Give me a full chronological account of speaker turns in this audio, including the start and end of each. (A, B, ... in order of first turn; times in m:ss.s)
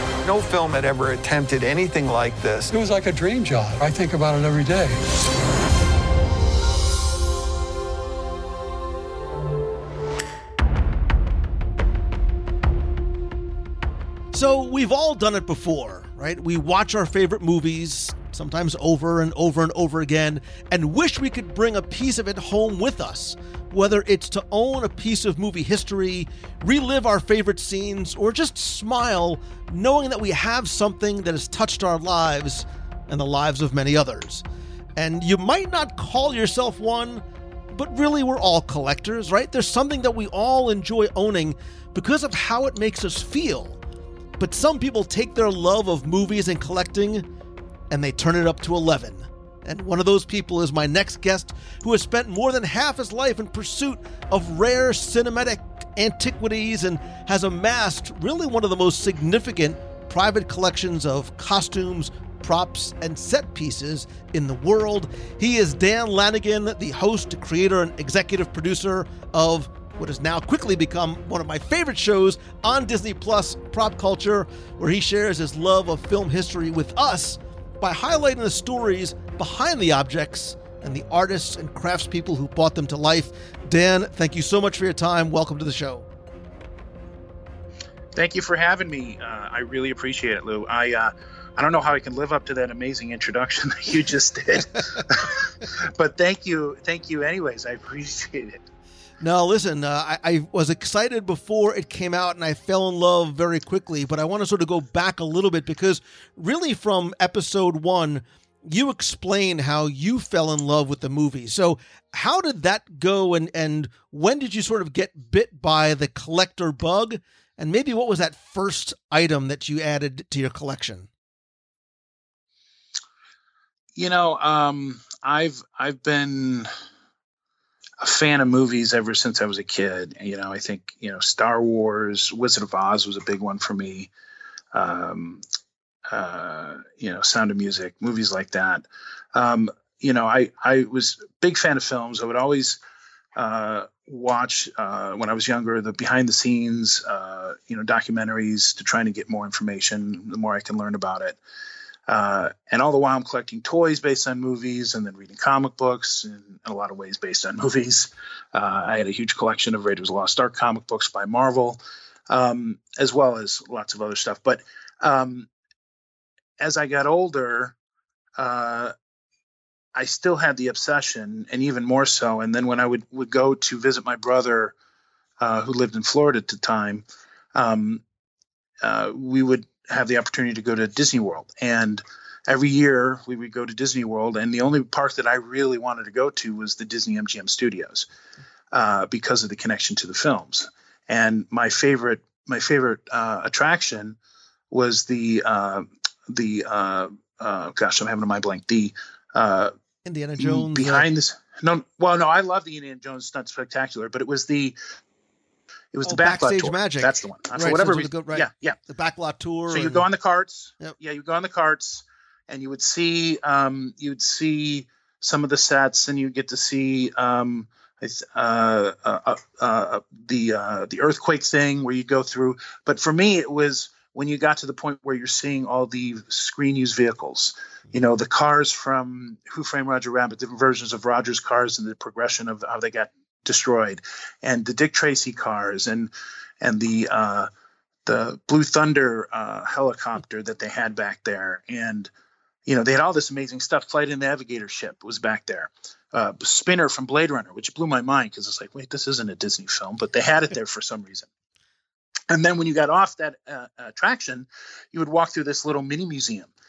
0:00.2-0:02.7 A
0:02.7-0:05.1 B
0:14.3-0:34.4 C
0:35.0-0:43.8 C
0:44.4-0:47.3 C
0:47.9-1:26.1 C
1:28.2-1:38.6 D
1:39.2-2:01.1 C
2:04.0-2:06.7 D
2:08.0-2:14.1 D
2:14.7-2:15.4 D
2:16.1-2:22.8 D
2:23.4-2:31.4 D
2:32.1-2:45.5 D
2:46.6-2:47.8 D
2:48.4-2:48.9 D
2:50.0-2:54.8 D
2:55.4-2:58.0 D
2:58.8-3:08.1 D
3:08.7-3:14.2 D
3:14.7-3:19.7 D
3:20.0-3:21.1 C
3:20.4-3:24.8 D
3:25.9-3:28.8 D
3:26.0-3:30.1 C
3:29.7-3:57.5 D
3:58.1-4:02.1 D
4:02.7-4:11.3 D
4:12.3-4:16.5 D